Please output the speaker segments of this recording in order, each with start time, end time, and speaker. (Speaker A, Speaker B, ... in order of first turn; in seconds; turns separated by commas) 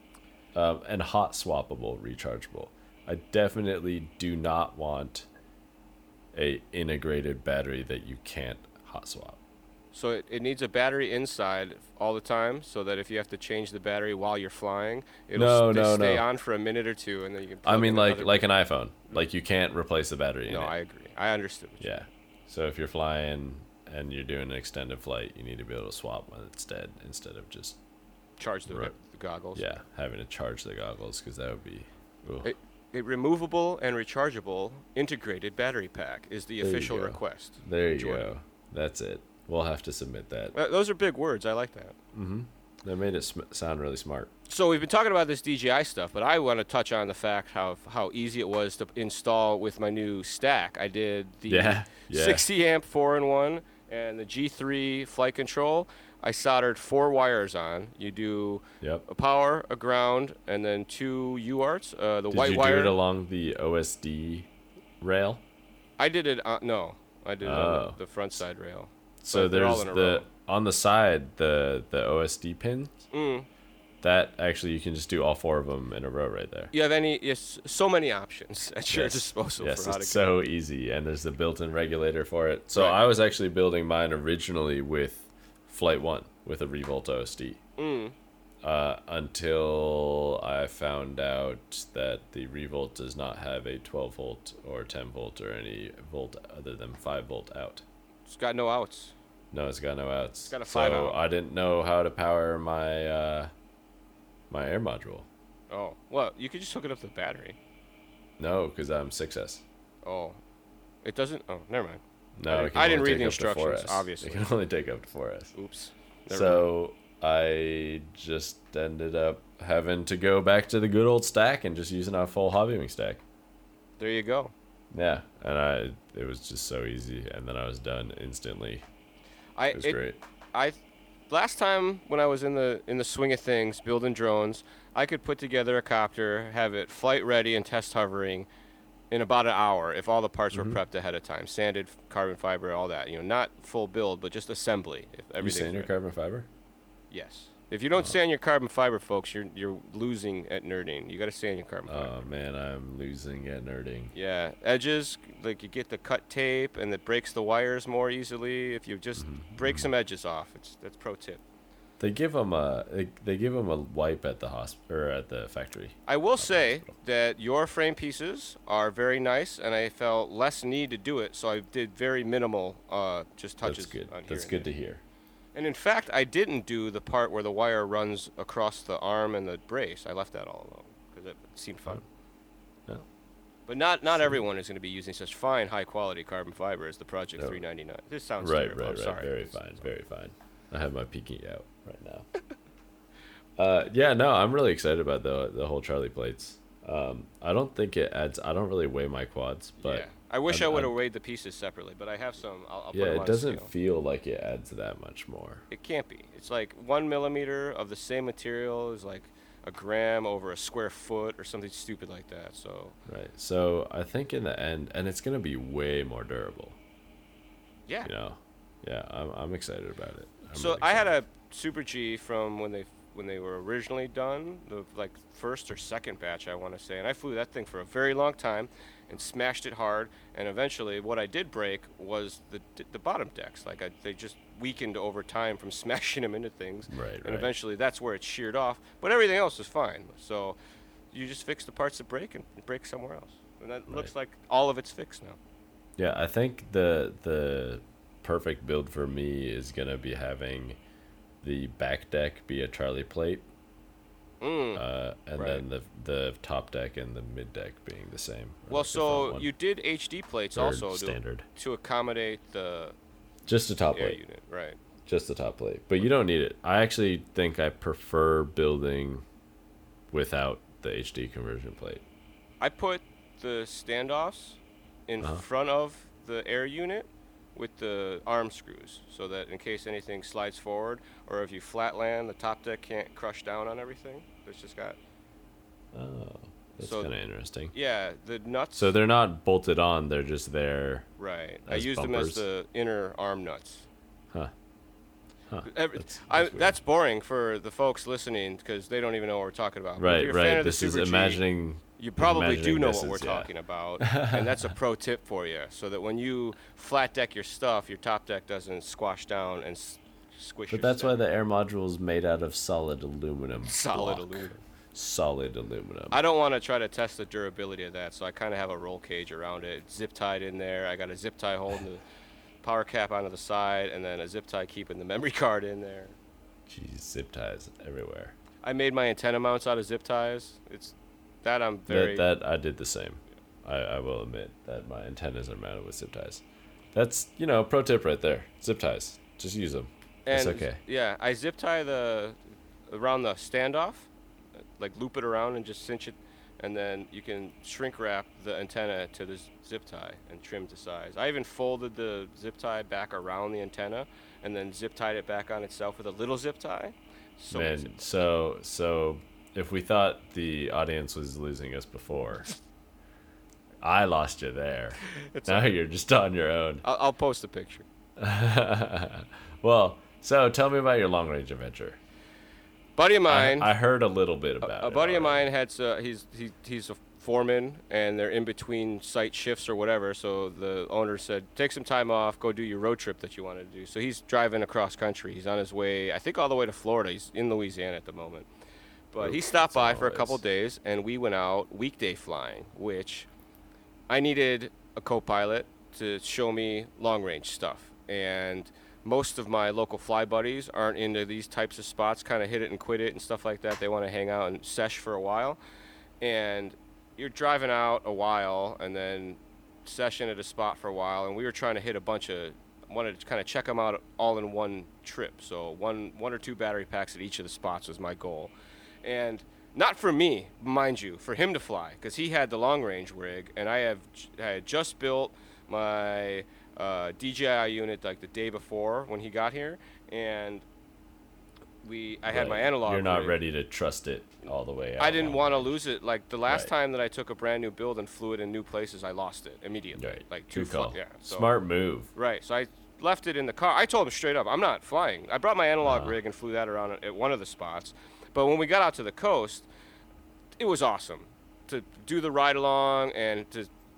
Speaker A: 0.6-5.3, Speaker A: 6.3-9.4, Speaker B: 9.9-18.5, Speaker A: 15.3-16.2, Speaker A: 17.6-20.7, Speaker B: 20.5-21.9, Speaker A: 21.8-27.8, Speaker B: 28.4-29.7, Speaker A: 29.6-32.5, Speaker B: 32.4-38.3, Speaker A: 36.6-40.5, Speaker B: 40.5-42.0, Speaker A: 42.1-44.3, Speaker B: 44.5-63.0, Speaker A: 51.5-52.5, Speaker A: 62.3-64.5, Speaker A: 65.0-65.4, Speaker B: 66.0-70.3, Speaker A: 67.4-68.0, Speaker A: 69.2-72.9, Speaker B: 73.1-73.5, Speaker A: 74.0-76.7, Speaker B: 76.7-80.3, Speaker A: 78.9-87.6, Speaker B: 82.8-83.0, Speaker B: 87.8-88.2, Speaker A: 88.6-97.8, Speaker B: 98.3-99.1, Speaker A: 99.5-103.5, Speaker B: 100.5-101.2, Speaker A: 104.5-105.3, Speaker B: 105.7-107.6, Speaker A: 108.4-109.6, Speaker B: 110.0-110.4, Speaker B: 111.0-114.5, Speaker A: 112.4-115.5, Speaker B: 115.5-116.7, Speaker A: 116.3-123.2, Speaker B: 124.0-124.5, Speaker A: 124.9-128.8, Speaker B: 129.6-130.0, Speaker A: 129.7-130.2, Speaker B: 130.5-130.8, Speaker B: 131.3-138.5, Speaker B: 139.1-145.9, Speaker A: 140.5-140.8, Speaker A: 145.4-146.5, Speaker B: 147.1-152.2, Speaker A: 151.9-154.1, Speaker B: 154.1-161.4, Speaker A: 159.2-159.9, Speaker A: 162.0-166.9, Speaker B: 166.1-174.7, Speaker A: 173.6-175.0, Speaker B: 175.6-182.0, Speaker B: 183.7-189.6, Speaker A: 184.2-184.4, Speaker A: 188.4-192.3, Speaker A: 193.6-200.9, Speaker B: 199.8-203.7, Speaker A: 202.9-205.6, Speaker B: 205.7-213.0, Speaker A: 213.1-216.8, Speaker A: 218.0-221.1, Speaker B: 220.5-240.6, Speaker A: 236.9-237.5, Speaker B: 241.1-245.4, Speaker A: 246.0-250.8, Speaker A: 251.4-253.5, Speaker B: 254.4-254.8, Speaker A: 254.8-259.5, Speaker B: 255.4-255.6, Speaker B: 258.7-263.0, Speaker A: 260.5-261.5, Speaker A: 263.5-264.2, Speaker B: 263.9-264.8, Speaker A: 265.1-269.2, Speaker A: 270.1-272.0, Speaker B: 272.6-285.0, Speaker A: 285.9-287.7, Speaker B: 286.8-287.1, Speaker B: 287.7-288.9, Speaker A: 288.8-291.1, Speaker B: 291.2-293.9, Speaker A: 291.7-292.5, Speaker A: 295.5-296.8, Speaker B: 295.6-301.4, Speaker A: 300.0-304.7, Speaker B: 302.0-311.2, Speaker A: 310.7-316.2, Speaker B: 313.6-314.6, Speaker B: 316.1-322.0, Speaker B: 322.6-326.1, Speaker A: 326.7-328.4, Speaker B: 328.6-332.3, Speaker A: 331.9-336.4, Speaker A: 336.9-340.8, Speaker B: 340.3-342.4, Speaker B: 342.9-344.1, Speaker B: 344.8-358.0, Speaker A: 357.5-362.5, Speaker A: 363.8-366.8, Speaker B: 365.1-365.7, Speaker B: 366.8-367.9, Speaker A: 368.2-372.0, Speaker B: 373.0-373.7, Speaker A: 373.3-375.5, Speaker B: 374.6-388.5, Speaker B: 389.1-393.3, Speaker A: 389.2-390.4, Speaker B: 394.1-405.6, Speaker B: 406.2-430.6, Speaker B: 431.8-433.4, Speaker A: 432.3-435.8, Speaker B: 435.0-441.5, Speaker A: 436.5-436.7, Speaker A: 440.0-442.1, Speaker B: 442.1-449.7, Speaker A: 445.8-446.2, Speaker B: 450.6-453.7